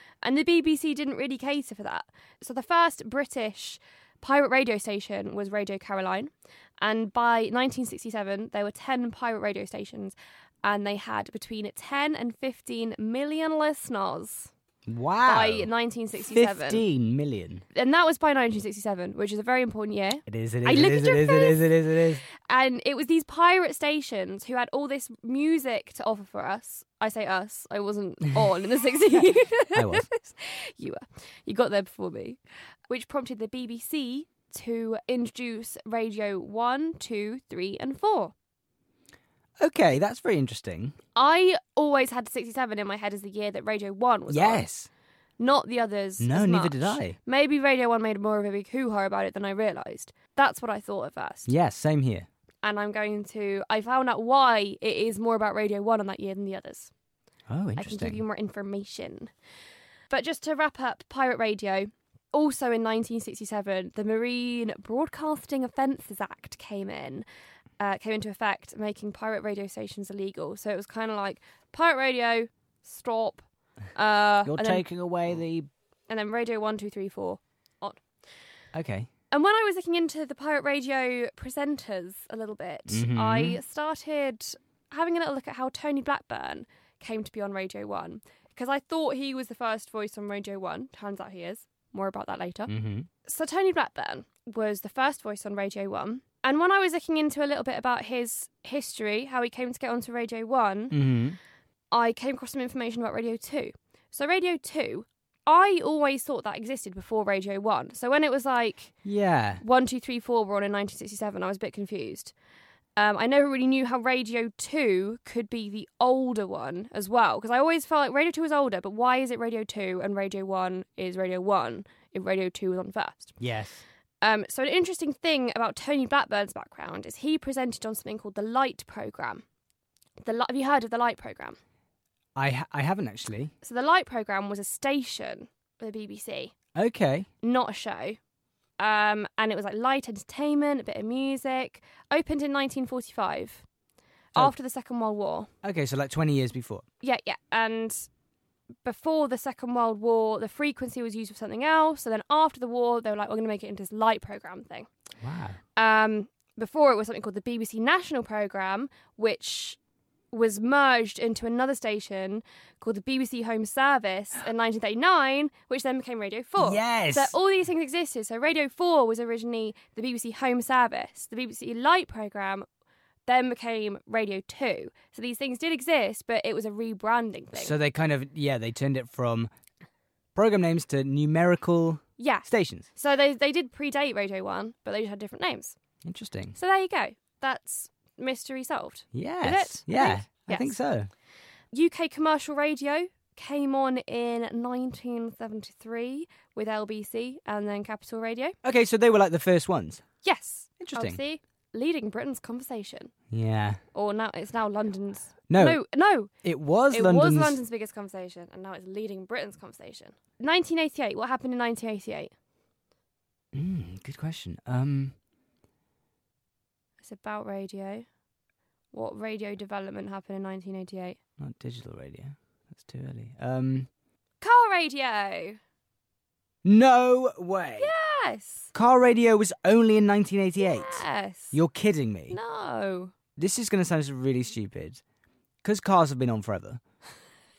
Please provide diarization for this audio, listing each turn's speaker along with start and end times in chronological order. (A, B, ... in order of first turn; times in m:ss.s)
0:00.2-0:14.5 A
0:14.9-0:17.6 B
0:15.2-0:16.8 A
0:17.7-0:21.6 A
0:20.3-0:22.2 B
0:22.4-0:38.3 A
0:29.7-0:30.1 B
0:39.6-0:41.0 B
0:41.2-0:44.6 A
0:44.3-0:44.9 B
0:45.4-0:51.5 A
0:46.2-0:47.2 B
0:51.5-0:52.3 B
0:52.6-0:56.9 A
0:57.5-0:58.2 B
0:57.8-0:59.3 A
1:00.1-1:07.2 A
1:07.8-1:14.9 A
1:14.4-1:15.7 B
1:16.1-1:18.0 A
1:18.7-1:19.1 B
1:19.3-1:32.7 A
1:22.9-1:23.6 B
1:32.7-1:33.1 B
1:33.2-1:41.0 A
1:40.9-1:41.4 B
1:41.9-1:49.0 A
1:49.0-1:49.6 B
1:49.6-1:52.3 A
1:53.0-2:03.4 A
2:03.4-2:03.8 B
2:04.2-2:09.4 A
2:10.2-2:11.6 A
2:12.4-2:13.5 B
2:13.6-2:16.5 A
2:16.8-2:17.3 B
2:17.4-2:18.2 A
2:18.8-2:23.6 A
2:24.3-2:25.5 A
2:25.6-2:26.9 B
2:27.0-2:28.1 A
2:28.8-2:34.9 A
2:35.2-2:35.6 B
2:35.8-2:39.8 A
2:40.3-2:52.7 A
2:46.6-2:47.4 B
2:53.3-2:57.8 A
2:57.5-2:59.5 B
3:00.4-3:02.9 B
3:02.2-3:05.8 A
3:06.0-3:06.6 B
3:06.6-3:10.8 A
3:09.1-3:11.1 B
3:11.7-3:18.6 A
3:18.6-3:20.0 B
3:20.2-3:23.1 A
3:20.8-3:21.2 B
3:23.3-3:23.8 B
3:23.9-3:26.3 A
3:25.5-3:27.6 B
3:26.9-3:32.3 A
3:33.5-3:35.2 B
3:37.0-3:38.1 A
3:38.9-3:41.2 A
3:41.4-3:43.9 B
3:44.4-3:45.6 A
3:46.6-3:47.9 B
3:47.8-3:48.7 A
3:48.7-3:52.4 B
3:50.6-3:51.6 A
3:52.3-3:53.1 A
3:53.4-3:55.0 B
3:55.6-3:56.8 B